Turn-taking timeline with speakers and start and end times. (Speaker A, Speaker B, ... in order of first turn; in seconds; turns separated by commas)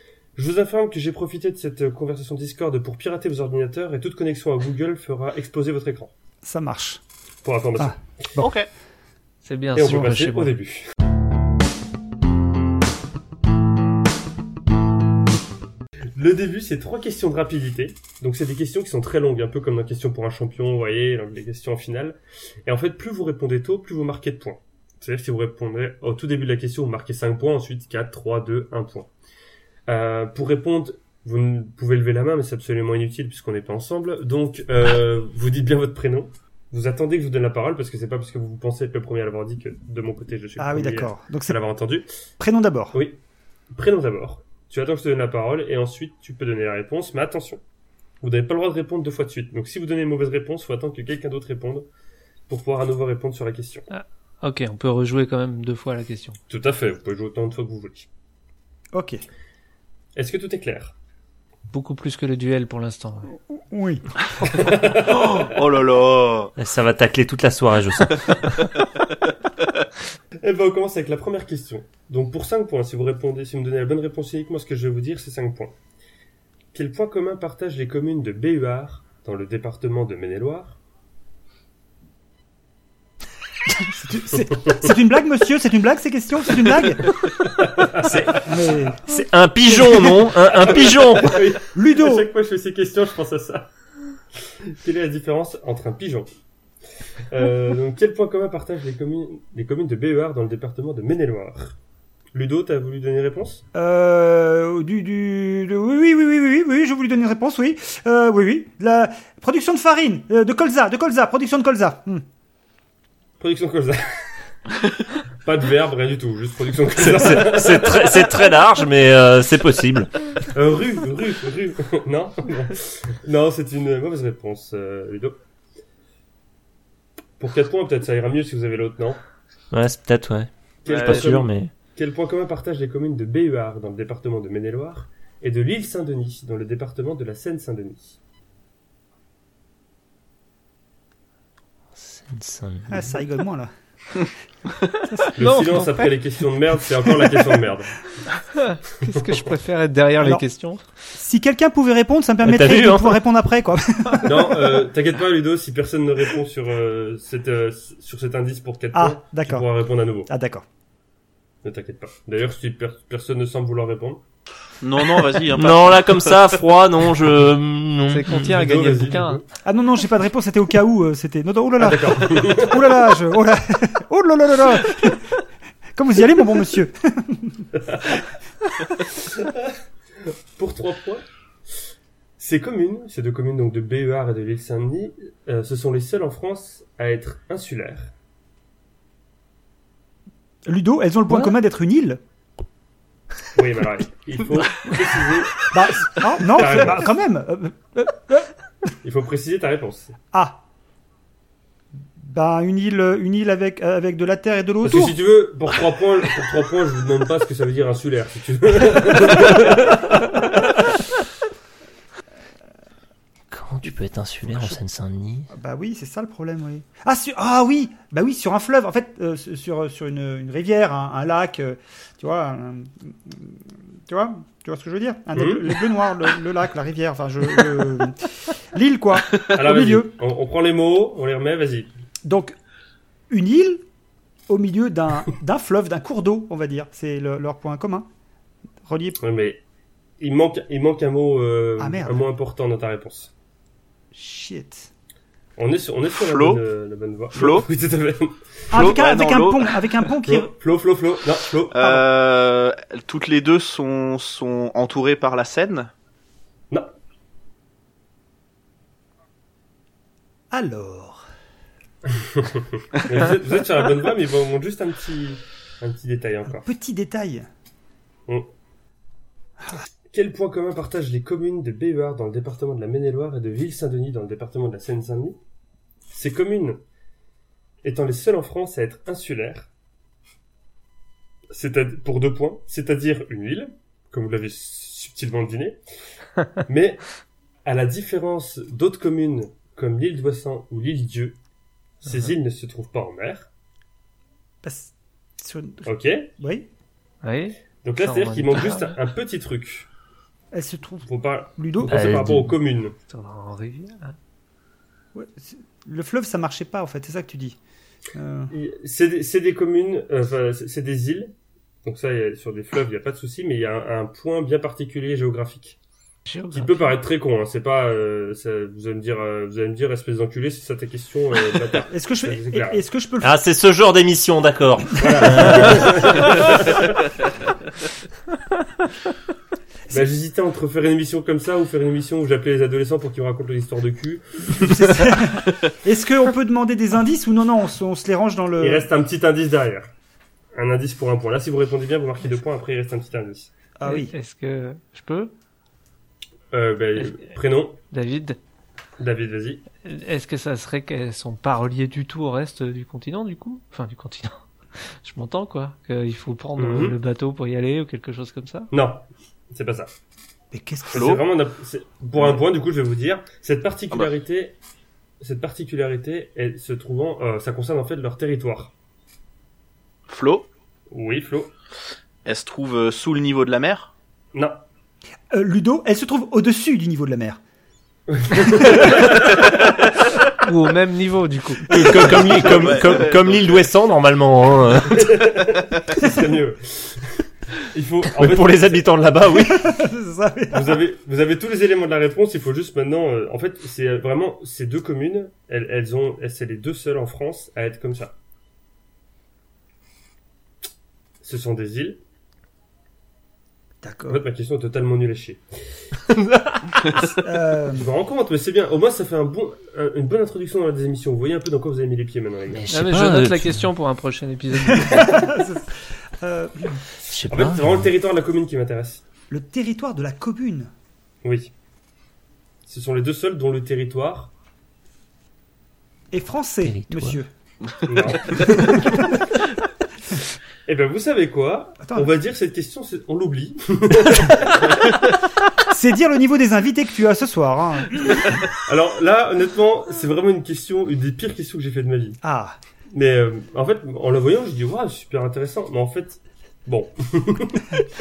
Speaker A: 0.3-6.1, Speaker B: 6.4-7.0, Speaker A: 7.4-8.0, Speaker B: 7.8-8.5, Speaker C: 8.4-8.7, Speaker D: 9.4-10.5, Speaker A: 9.7-10.9, Speaker A: 16.1-29.1, Speaker A: 29.9-42.0, Speaker B: 40.6-41.6, Speaker B: 42.4-43.0, Speaker A: 42.9-43.2, Speaker A: 43.7-47.6, Speaker A: 48.2-51.9, Speaker A: 52.5-53.9, Speaker D: 53.9-56.4, Speaker A: 56.5-58.1, Speaker B: 58.9-59.2, Speaker A: 60.1-60.9, Speaker D: 61.7-63.3, Speaker B: 63.5-64.1, Speaker A: 64.5-65.5, Speaker C: 64.9-66.5, Speaker E: 66.6-68.5, Speaker A: 70.4-75.7, Speaker A: 76.7-80.8, Speaker B: 83.7-87.1, Speaker A: 87.6-88.4, Speaker E: 88.0-91.5, Speaker B: 88.4-90.2, Speaker A: 90.5-93.7, Speaker B: 91.7-92.3, Speaker A: 94.8-96.3, Speaker A: 97.3-101.8, Speaker A: 102.3-103.6, Speaker B: 103.7-112.2, Speaker A: 113.4-114.2, Speaker A: 115.4-118.3, Speaker E: 117.0-120.1, Speaker A: 120.5-125.3, Speaker A: 127.4-129.2, Speaker E: 129.7-131.7, Speaker A: 130.8-138.2, Speaker C: 130.9-131.3, Speaker E: 141.9-143.1, Speaker B: 142.9-143.7, Speaker B: 145.1-145.8, Speaker A: 145.4-148.1, Speaker D: 145.4-146.1, Speaker D: 148.5-150.8, Speaker A: 149.1-149.5, Speaker B: 151.2-154.8, Speaker E: 152.4-153.2, Speaker A: 154.2-160.3, Speaker B: 158.9-159.7, Speaker B: 160.3-160.6, Speaker A: 161.6-164.2, Speaker C: 164.8-166.4, Speaker E: 165.5-168.4, Speaker D: 168.1-169.4, Speaker A: 168.3-169.4, Speaker B: 169.6-175.3, Speaker A: 171.8-173.1, Speaker B: 175.9-177.7, Speaker A: 179.0-179.7, Speaker A: 180.6-181.2, Speaker A: 182.4-188.1, Speaker B: 190.6-192.2, Speaker D: 191.3-191.6, Speaker A: 193.5-195.7, Speaker B: 195.7-198.5, Speaker A: 196.2-197.1, Speaker A: 199.0-200.2, Speaker B: 200.3-200.6, Speaker B: 202.2-205.2, Speaker A: 204.8-210.7, Speaker E: 213.5-215.5, Speaker B: 215.5-230.1, Speaker A: 225.3-225.8, Speaker A: 229.4-231.9, Speaker B: 232.2-232.5, Speaker B: 233.3-233.8, Speaker B: 234.5-238.1, Speaker B: 238.8-239.2, Speaker A: 239.2-239.6, Speaker A: 240.2-243.3, Speaker B: 241.8-242.3, Speaker B: 244.1-244.9, Speaker A: 245.6-249.0, Speaker C: 246.2-246.6, Speaker C: 247.3-247.7, Speaker B: 248.7-250.5, Speaker C: 248.7-249.7, Speaker A: 250.3-251.8, Speaker C: 251.7-255.9, Speaker B: 251.8-252.0, Speaker B: 260.5-261.2, Speaker A: 262.1-266.7, Speaker B: 266.5-267.5, Speaker A: 270.1-275.4, Speaker A: 276.1-276.8, Speaker A: 277.8-279.7, Speaker A: 281.5-285.8, Speaker A: 286.7-287.0, Speaker A: 287.6-291.4, Speaker A: 292.0-293.5, Speaker B: 294.6-296.7, Speaker A: 295.9-296.3, Speaker D: 297.2-299.0, Speaker A: 297.8-299.9, Speaker B: 300.5-302.0, Speaker A: 301.1-302.9, Speaker E: 301.9-302.5, Speaker D: 303.1-304.1, Speaker B: 305.1-307.6, Speaker B: 308.1-308.5, Speaker A: 308.5-311.3, Speaker A: 311.8-315.8, Speaker D: 316.3-316.9, Speaker A: 316.5-322.8, Speaker B: 321.9-323.4, Speaker E: 323.2-326.4, Speaker A: 325.0-326.9, Speaker A: 329.9-335.1, Speaker B: 334.5-338.9, Speaker A: 338.6-339.9, Speaker A: 340.5-343.5, Speaker B: 343.8-344.1, Speaker D: 343.9-345.3, Speaker A: 346.5-347.8, Speaker D: 347.9-348.4, Speaker A: 349.0-349.6, Speaker D: 349.8-354.4, Speaker D: 355.0-358.7, Speaker A: 356.6-357.0, Speaker A: 358.7-359.9, Speaker B: 360.5-361.2, Speaker A: 360.9-364.6, Speaker C: 360.9-361.2, Speaker A: 365.2-368.7, Speaker C: 370.1-370.5, Speaker A: 370.9-371.5, Speaker C: 372.2-373.9, Speaker A: 374.3-374.6, Speaker B: 375.3-377.4, Speaker A: 378.1-379.6, Speaker D: 380.3-382.0, Speaker E: 381.7-385.1, Speaker A: 381.8-382.7, Speaker C: 382.1-383.6, Speaker A: 384.9-388.8, Speaker E: 388.1-389.7, Speaker B: 389.4-390.8, Speaker A: 390.5-398.1, Speaker A: 401.2-402.0, Speaker B: 403.8-404.2, Speaker A: 404.1-405.4, Speaker B: 407.1-407.9, Speaker A: 407.7-412.7, Speaker E: 412.5-413.7, Speaker D: 412.7-415.3, Speaker B: 414.7-416.8, Speaker E: 417.1-417.9, Speaker A: 417.3-419.0, Speaker B: 419.3-420.7, Speaker A: 421.2-421.5, Speaker A: 422.6-424.3, Speaker B: 426.1-427.3, Speaker E: 426.6-427.2, Speaker A: 427.8-429.2, Speaker A: 430.6-435.0, Speaker B: 431.8-432.1, Speaker B: 435.7-438.2, Speaker A: 438.5-442.2, Speaker B: 442.2-442.6, Speaker A: 442.9-447.9